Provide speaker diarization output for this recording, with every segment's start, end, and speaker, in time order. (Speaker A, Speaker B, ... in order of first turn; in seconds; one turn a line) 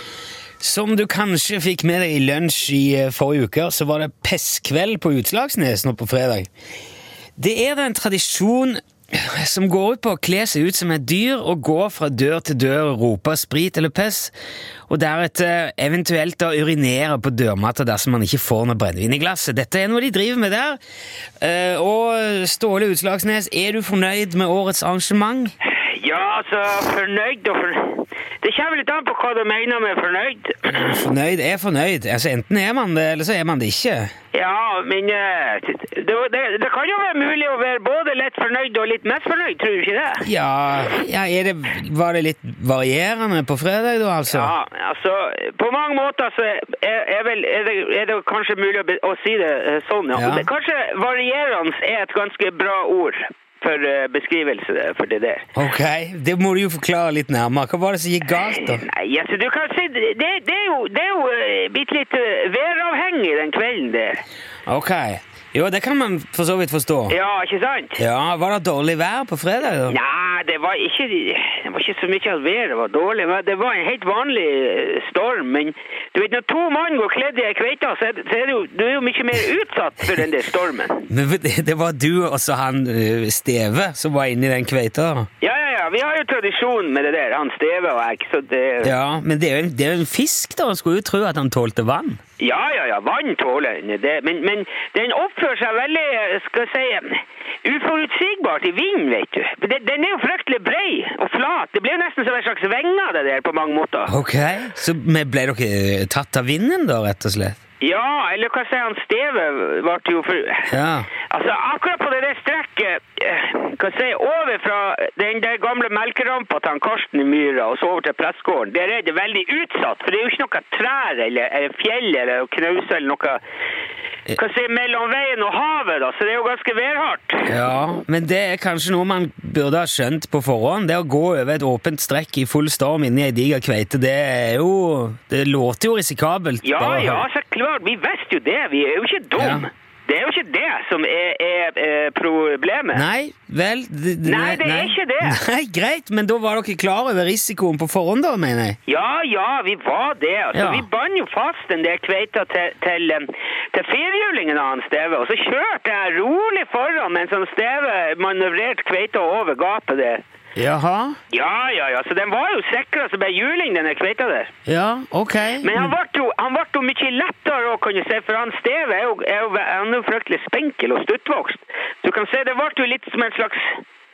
Speaker A: 0.6-6.5
Speaker A: 7.4-14.3
Speaker A: 14.9-20.8
Speaker A: 21.4-25.5
Speaker B: 25.7-30.6
Speaker A: 30.6-34.1
Speaker B: 34.3-40.3
Speaker A: 40.2-44.6
Speaker B: 44.5-55.5
Speaker A: 50.1-50.5
Speaker A: 55.5-58.9
Speaker B: 58.9-64.2
Speaker A: 64.7-67.2
Speaker B: 67.1-68.0
Speaker A: 68.0-70.0
Speaker B: 69.9-81.1
Speaker A: 81.1-85.3
Speaker B: 85.4-88.9
Speaker A: 88.8-92.2
Speaker B: 92.4-104.1
Speaker A: 104.0-107.6
Speaker B: 107.8-110.7
Speaker A: 110.7-111.1
Speaker B: 111.3-123.4
Speaker B: 124.4-127.5
Speaker A: 127.5-137.3
Speaker B: 136.7-139.5
Speaker A: 139.3-139.7
Speaker B: 140.1-143.0
Speaker A: 142.9-148.8
Speaker B: 144.3-145.3
Speaker B: 148.9-160.2
Speaker A: 150.5-150.9
Speaker A: 160.6-161.2
Speaker B: 161.3-164.5
Speaker A: 164.7-166.0
Speaker B: 165.9-173.8